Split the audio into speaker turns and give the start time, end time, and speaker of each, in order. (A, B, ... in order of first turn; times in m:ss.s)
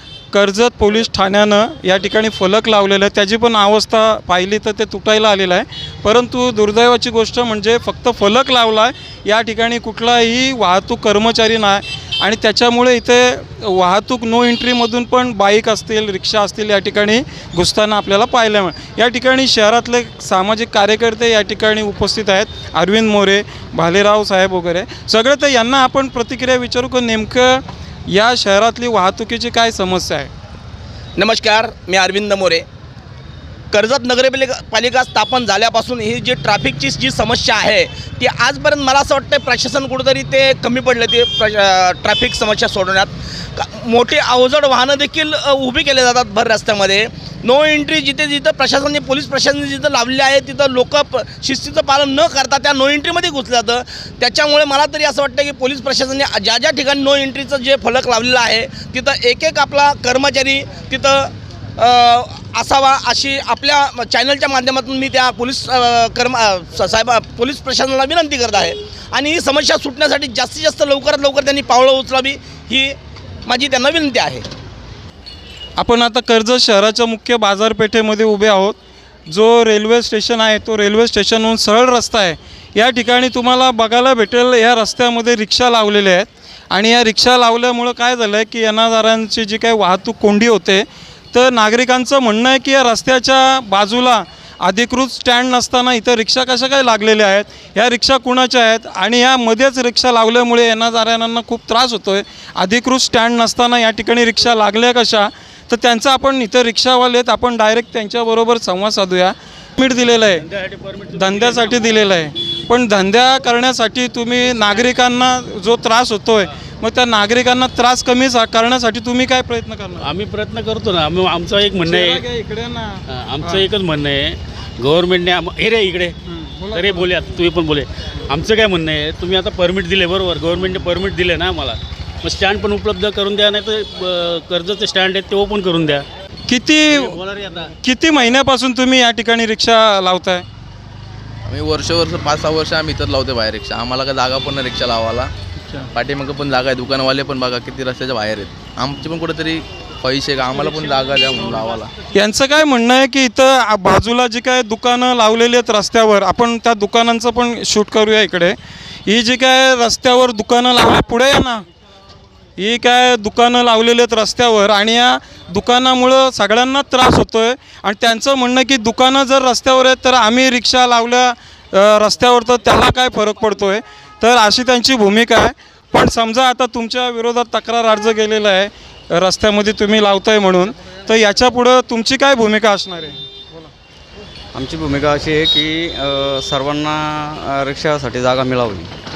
0:00.3-0:30.3 A
0:31.2-0:32.7 B
0:33.7-1:14.5 B
1:15.8-1:18.8 A
1:19.3-1:50.4 A
1:50.3-1:51.9 C
1:51.1-2:00.1 A
2:00.0-2:02.2 C
2:01.8-2:03.7 A
2:03.1-2:06.2 C
2:06.3-2:07.1 A
2:06.7-2:16.0 C
2:10.6-2:10.9 A
2:16.5-2:17.2 A
2:16.9-2:17.7 C
2:17.8-2:20.4 A
2:21.5-2:25.3 D
2:25.9-2:31.9 D
2:30.5-2:31.8 C
2:32.2-2:41.6 A
2:42.6-3:03.7 A
3:04.5-3:08.9 E